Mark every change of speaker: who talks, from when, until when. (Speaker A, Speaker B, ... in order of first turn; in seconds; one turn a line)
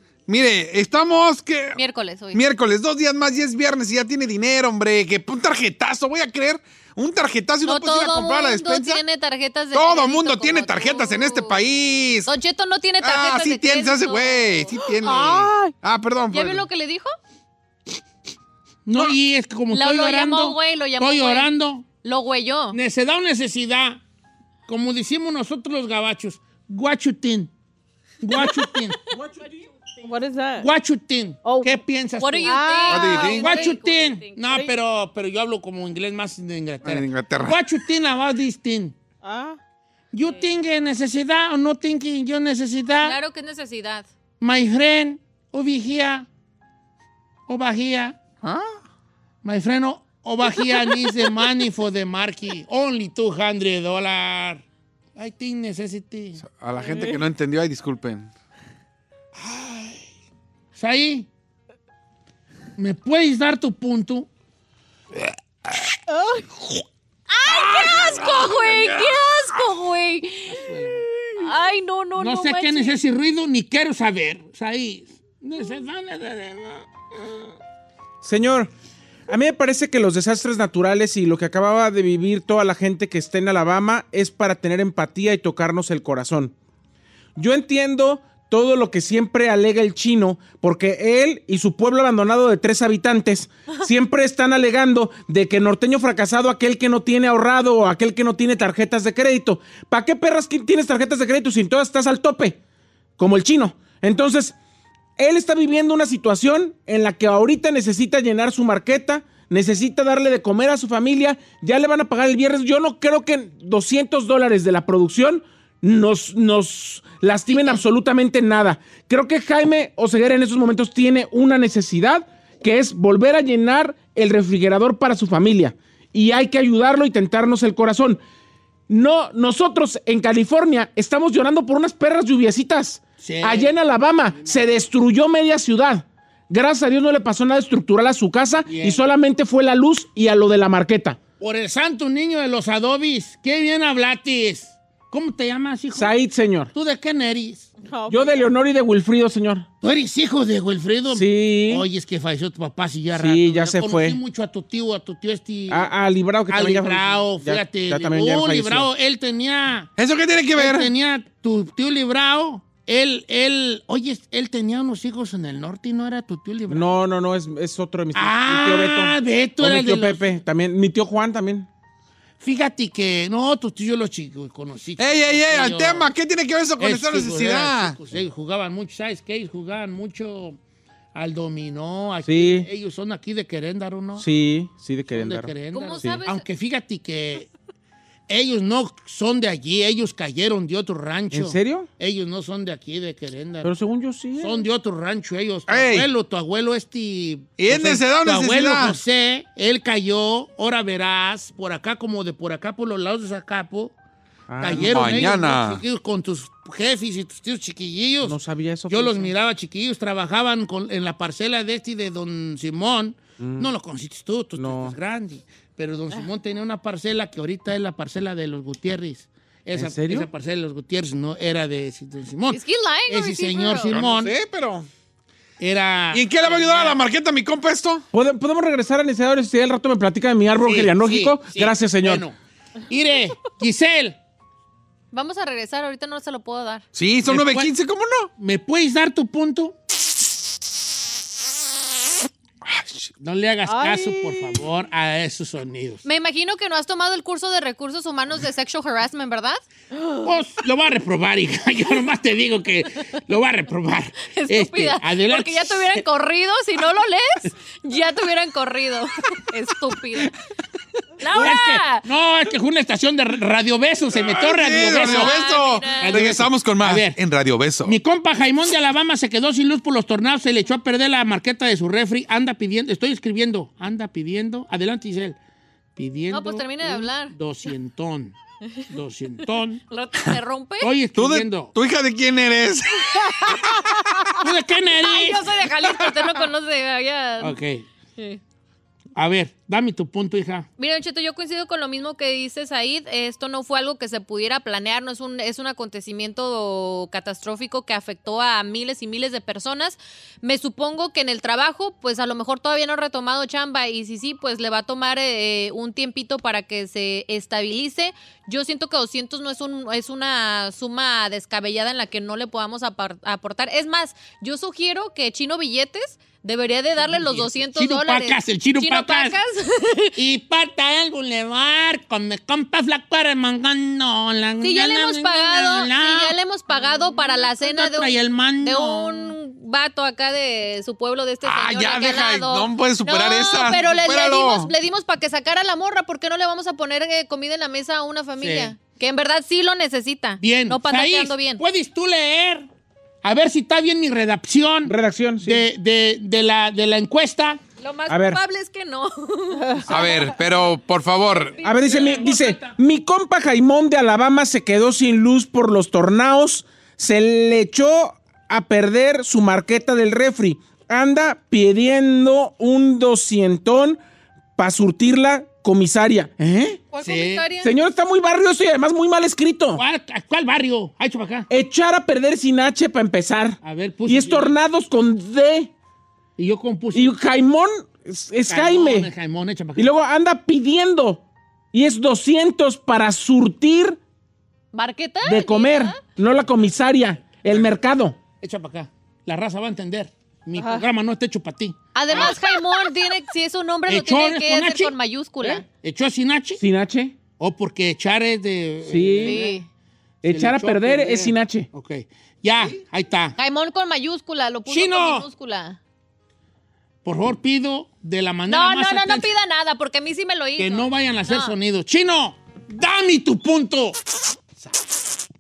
Speaker A: 0.3-1.8
Speaker B: 1.8-2.4
Speaker A: 2.3-9.0
Speaker B: 7.6-11.6
Speaker A: 9.7-12.3
Speaker B: 12.3-14.7
Speaker A: 13.0-16.7
Speaker C: 14.7-15.8
Speaker B: 16.3-17.1
Speaker D: 18.9-21.9
Speaker B: 19.7-22.8
Speaker D: 22.7-24.0
Speaker D: 24.7-27.5
Speaker D: 28.2-29.0
Speaker E: 29.1-29.5
Speaker C: 30.0-30.7
Speaker D: 30.6-39.0
Speaker C: 31.4-31.8
Speaker B: 32.2-34.7
Speaker C: 32.5-33.7
Speaker A: 32.9-33.6
Speaker A: 36.8-37.6
Speaker C: 39.2-39.6
Speaker D: 40.1-43.2
Speaker B: 43.0-44.1
Speaker D: 44.4-46.3
Speaker D: 47.5-48.2
Speaker A: 48.4-48.8
Speaker D: 49.4-54.6
Speaker D: 55.2-56.4
Speaker A: 56.4-58.3
Speaker C: 56.8-57.2
Speaker D: 59.4-60.0
Speaker D: 60.8-61.3
Speaker D: 62.8-64.3
Speaker C: 66.1-66.7
Speaker B: 67.4-70.7
Speaker D: 70.5-71.1
Speaker B: 71.4-73.0
Speaker D: 72.2-77.4
Speaker E: 78.2-78.7
Speaker E: 79.3-86.5
Speaker E: 87.4-102.6
Speaker E: 103.2-104.5
Speaker E: 105.2-128.2
Speaker E: 128.9-141.2
Speaker D: 133.2-134.8
Speaker D: 138.7-139.0
Speaker D: 141.4-146.2
Speaker E: 145.9-146.7
Speaker D: 146.7-147.7
Speaker C: 147.8-148.5
Speaker E: 148.1-149.7
Speaker D: 149.8-155.9
Speaker E: 151.1-151.9
Speaker E: 153.2-154.2
Speaker E: 155.7-158.9
Speaker D: 156.5-159.9
Speaker A: 160.0-160.9
Speaker D: 160.6-167.0
Speaker E: 166.7-171.7
Speaker D: 168.1-170.4
Speaker D: 172.4-176.1
Speaker A: 175.0-178.0
Speaker D: 176.8-180.6
Speaker D: 181.2-184.3
Speaker E: 182.2-182.7
Speaker E: 184.2-186.2
Speaker D: 185.1-187.5
Speaker B: 185.7-186.4
Speaker D: 188.3-193.8
Speaker E: 191.3-191.9
Speaker E: 193.6-194.7
Speaker D: 194.4-203.9
Speaker A: 195.7-196.1
Speaker A: 197.6-199.0
Speaker E: 204.5-205.2
Speaker D: 204.6-224.3
Speaker A: 204.7-205.8
Speaker E: 208.2-209.3
Speaker E: 213.4-213.7
Speaker E: 214.6-215.0
Speaker E: 219.7-220.3
Speaker B: 222.5-223.9
Speaker A: 223.9-224.9
Speaker D: 225.6-226.9
Speaker A: 226.1-228.1
Speaker E: 228.1-232.2
Speaker D: 230.6-232.3
Speaker D: 232.9-234.2
Speaker B: 235.1-236.8
Speaker A: 236.9-238.3
Speaker D: 237.3-237.7
Speaker D: 238.4-239.7
Speaker A: 242.7-243.1
Speaker D: 243.2-246.0
Speaker C: 243.7-244.7
Speaker B: 246.0-249.6
Speaker C: 249.9-250.3
Speaker D: 250.2-256.0
Speaker B: 254.3-260.3
Speaker B: 261.2-262.1
Speaker D: 261.3-265.4
Speaker A: 264.1-268.0
Speaker B: 264.9-266.2
Speaker D: 266.0-267.2
Speaker D: 267.8-275.4
Speaker D: 276.0-278.3
Speaker B: 276.3-277.4
Speaker D: 278.9-279.8
Speaker B: 279.9-280.9
Speaker D: 280.8-281.7
Speaker A: 281.1-284.1
Speaker D: 284.4-285.6
Speaker B: 285.0-287.6
Speaker D: 287.4-287.9
Speaker D: 289.2-290.7
Speaker B: 290.8-320.2
Speaker D: 317.0-319.4
Speaker D: 320.2-326.4
Speaker B: 324.6-341.6
Speaker D: 327.3-329.4
Speaker A: 331.4-334.7
Speaker D: 338.4-338.7
Speaker D: 340.4-342.7
Speaker D: 343.2-347.6
Speaker E: 344.9-345.7
Speaker B: 347.8-350.4
Speaker E: 348.1-348.4
Speaker C: 349.6-349.9
Speaker A: 349.9-351.6
Speaker B: 351.4-352.1
Speaker E: 351.6-364.0
Speaker D: 351.7-352.8
Speaker E: 364.6-366.8
Speaker B: 366.9-367.7
Speaker D: 367.0-367.5
Speaker E: 367.6-369.8
Speaker D: 369.8-371.5
Speaker E: 371.5-375.7
Speaker D: 373.6-374.6
Speaker D: 376.4-377.2
Speaker E: 376.9-379.1
Speaker D: 378.5-379.9
Speaker E: 379.8-384.0
Speaker B: 384.7-386.0
Speaker E: 385.2-388.2
Speaker D: 388.4-392.4
Speaker C: 390.6-390.9
Speaker B: 391.9-395.6
Speaker D: 393.9-396.6
Speaker E: 396.6-397.2
Speaker D: 397.4-399.5
Speaker E: 398.8-399.4
Speaker B: 399.2-399.7
Speaker E: 400.2-401.7
Speaker D: 400.3-403.4
Speaker B: 403.4-405.8
Speaker D: 404.7-405.3
Speaker D: 407.0-409.3
Speaker B: 408.5-411.6
Speaker D: 410.6-414.0